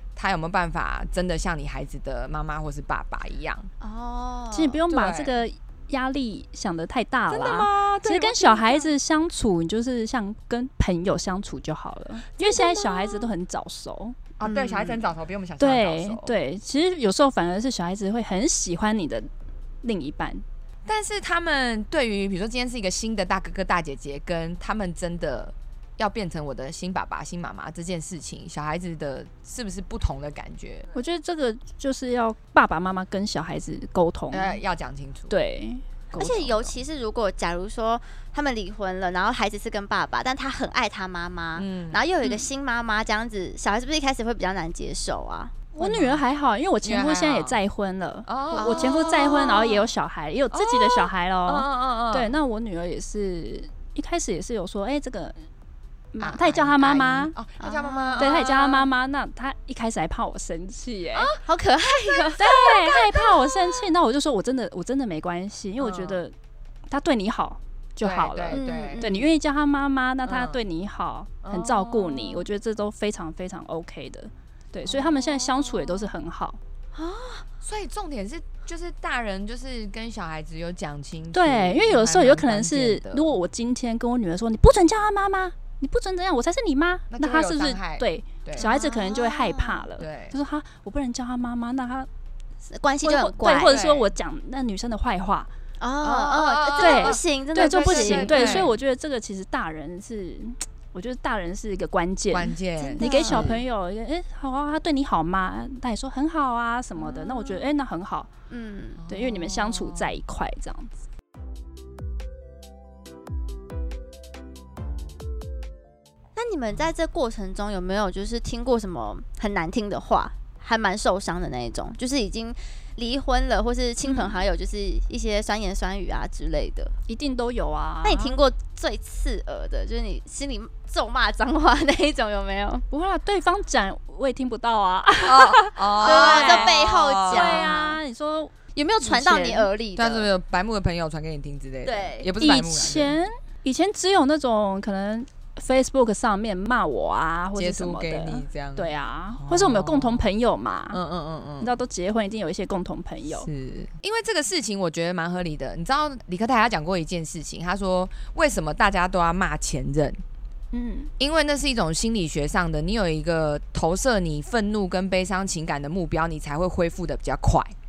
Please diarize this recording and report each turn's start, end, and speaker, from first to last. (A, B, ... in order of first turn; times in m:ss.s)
0:00.1-0:03.7 A
0:03.8-0:04.8 B
0:04.5-0:14.2 C
0:04.9-0:05.4 A
0:07.3-0:08.9 A
0:12.4-0:13.2 A
0:14.4-0:16.4 A
0:14.4-0:15.0 B
0:15.6-0:19.3 C
0:19.8-0:20.4 C
0:20.8-0:30.9 A
0:30.9-0:34.6 C
0:34.3-0:35.3 A
0:35.3-0:36.0 C
0:36.1-0:36.7 A
0:36.1-0:45.6 B
0:41.6-0:42.0 A
0:45.7-0:46.2 A
0:45.8-0:55.4 C
0:46.8-0:47.6 A
0:48.2-0:49.7 A
0:48.5-0:49.8 B
0:50.5-0:52.4 A
0:56.1-0:57.3 C
0:56.2-0:58.9 A
0:57.6-0:58.4 B
0:58.2-1:01.3 C
1:01.3-1:02.9 B
1:02.2-1:03.2 A
1:02.4-1:06.3 C
1:05.8-1:06.2 A
1:06.9-1:16.6 C
1:08.0-1:09.1 A
1:08.5-1:09.2 B
1:10.2-1:10.6 A
1:11.4-1:12.4 A
1:14.9-1:16.0 A
1:16.9-1:17.4 B
1:17.6-1:23.3 A
1:21.3-1:32.1 C
1:27.1-1:28.7 A
1:28.6-1:29.8 B
1:30.0-1:30.3 A
1:32.7-1:33.8 B
1:33.0-1:35.5 C
1:33.6-1:34.1 A
1:35.8-1:38.7 B
1:36.0-1:38.8 A
1:36.8-1:48.3 C
1:42.3-1:43.6 A
1:42.8-1:43.6 B
1:47.1-1:47.6 A
1:48.5-1:49.0 B
1:49.0-1:50.1 A
1:49.1-1:51.0 C
1:56.4-2:06.9 B
2:04.0-2:04.4 C
2:07.1-2:08.4 C
2:08.0-2:12.8 B
2:12.9-2:19.7 C
2:15.2-2:17.8 A
2:16.0-2:18.0 B
2:18.8-2:20.3 B
2:20.0-2:23.2 A
2:21.8-2:22.3 B
2:22.4-2:31.0 C
2:27.5-2:30.3 A
2:30.9-2:31.8 A
2:31.6-2:33.5 C
2:33.4-2:40.2 A
2:40.7-2:41.1 C
2:41.2-2:47.7 A